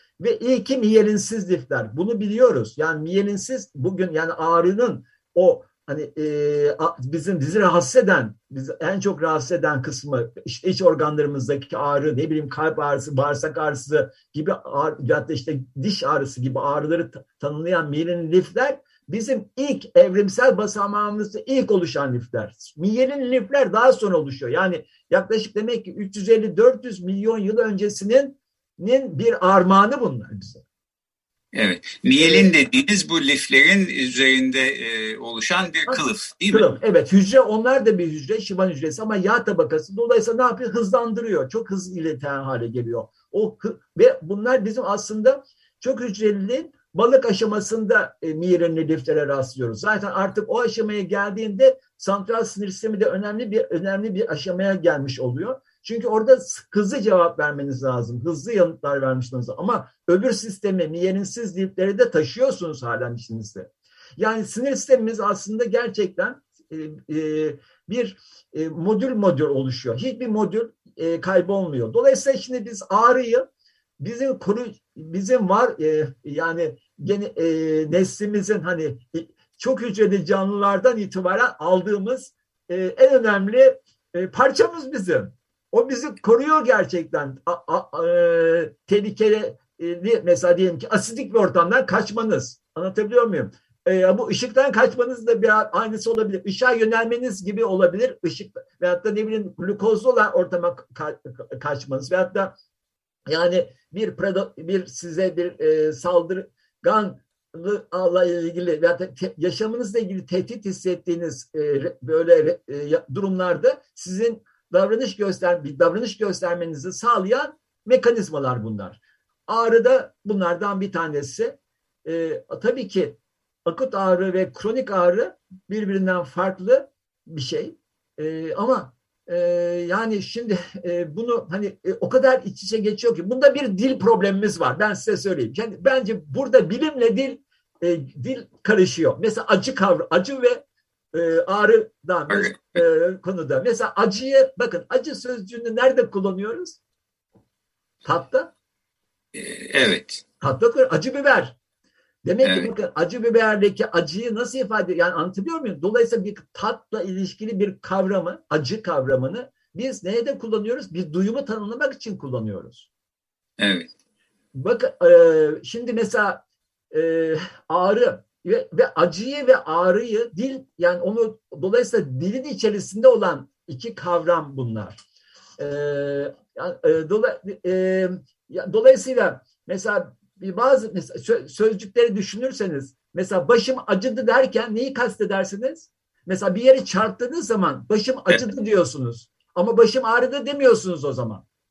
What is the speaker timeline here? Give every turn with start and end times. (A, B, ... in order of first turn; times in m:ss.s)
0:00.2-0:30.6 A
0:31.5-0:36.7 B
0:32.2-0:32.5 A
0:35.9-1:13.4 A
1:14.0-1:42.6 A
1:43.3-2:26.8 A
2:22.3-2:22.6 B
2:28.0-2:28.5 A
2:29.3-2:30.2 B
2:30.4-2:31.6 A
2:32.2-2:42.9 A
2:32.4-2:32.7 B
2:43.6-2:43.9 B
2:44.6-2:46.4 A
2:46.9-2:55.0 A
2:55.6-3:11.4 A